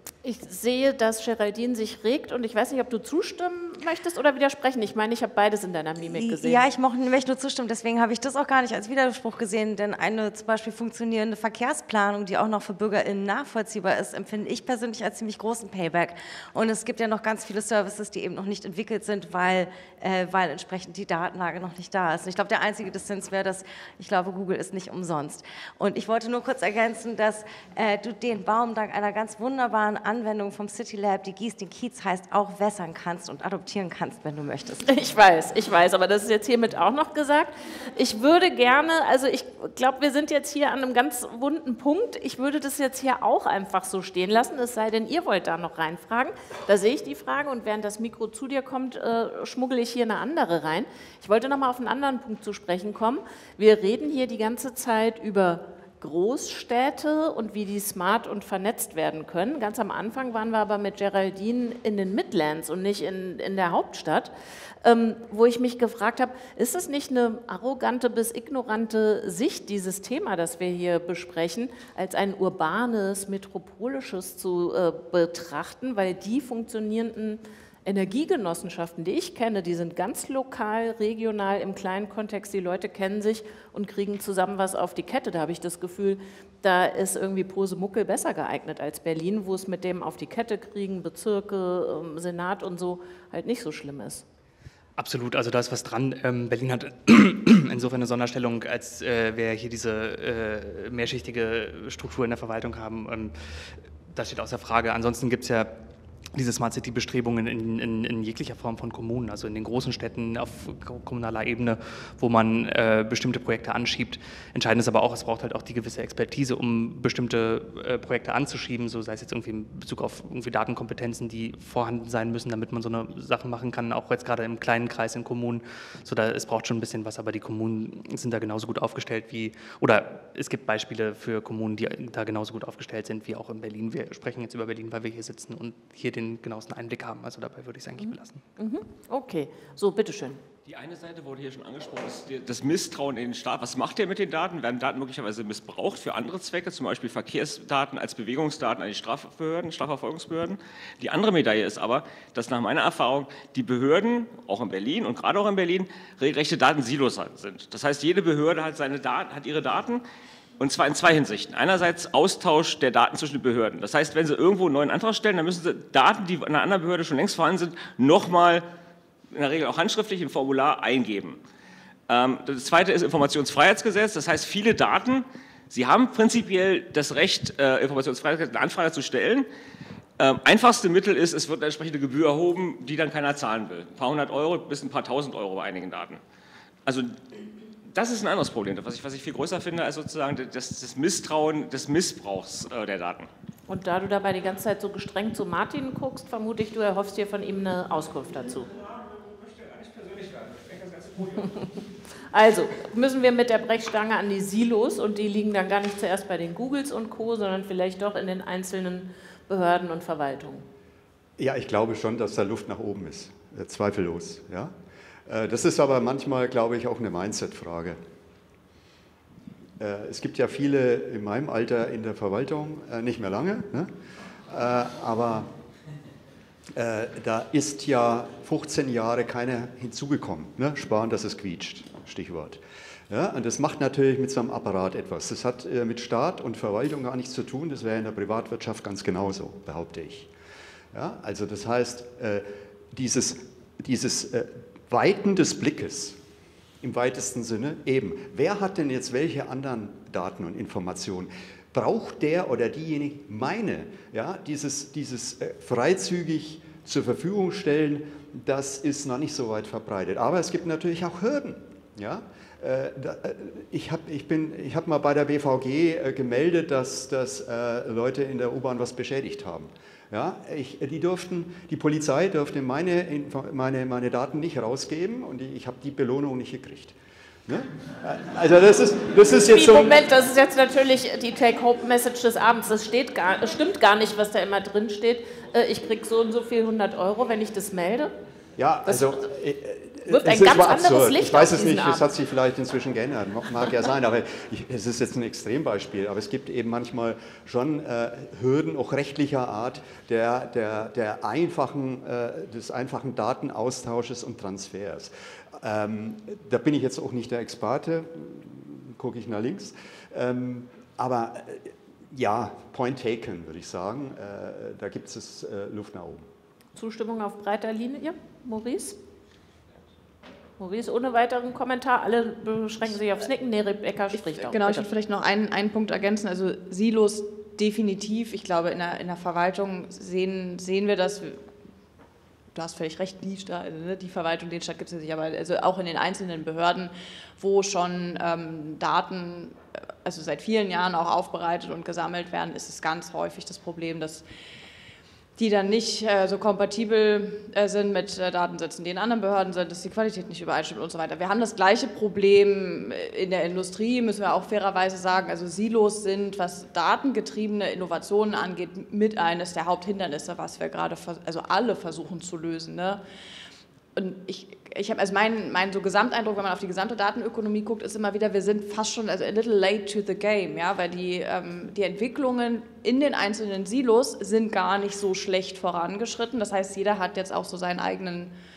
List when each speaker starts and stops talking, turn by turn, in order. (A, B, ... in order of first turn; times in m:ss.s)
0:00.2-0:06.6 A
0:06.1-0:34.9 B
0:34.8-1:04.3 A
1:04.8-1:34.2 A
1:35.0-1:43.3 C
1:44.1-1:45.7 C
1:46.3-2:18.4 C
2:18.6-2:20.4 A
2:20.6-2:40.0 D
2:40.6-2:48.6 D
2:49.3-2:51.4 D
2:52.1-2:59.4 D
3:00.2-3:06.2 D
3:06.8-3:07.2 D
3:07.9-3:13.3 D
3:13.7-3:18.7 A
3:19.8-3:21.2 D
3:22.3-3:30.6 A
3:31.4-3:34.7 E
3:35.3-3:38.0 E
3:39.8-3:43.9 E
3:44.5-3:45.5 E
3:46.7-4:00.3 E
4:00.9-4:06.2 E
4:06.8-4:40.0 E
4:39.3-4:48.1 A
4:48.6-5:16.2 E
4:48.8-4:49.2 A
4:50.1-4:52.0 A
5:16.8-5:19.0 A
5:20.6-5:24.8 A
5:24.2-5:31.4 F
5:32.5-5:44.2 F
5:45.4-6:03.0 F
6:03.9-6:18.3 F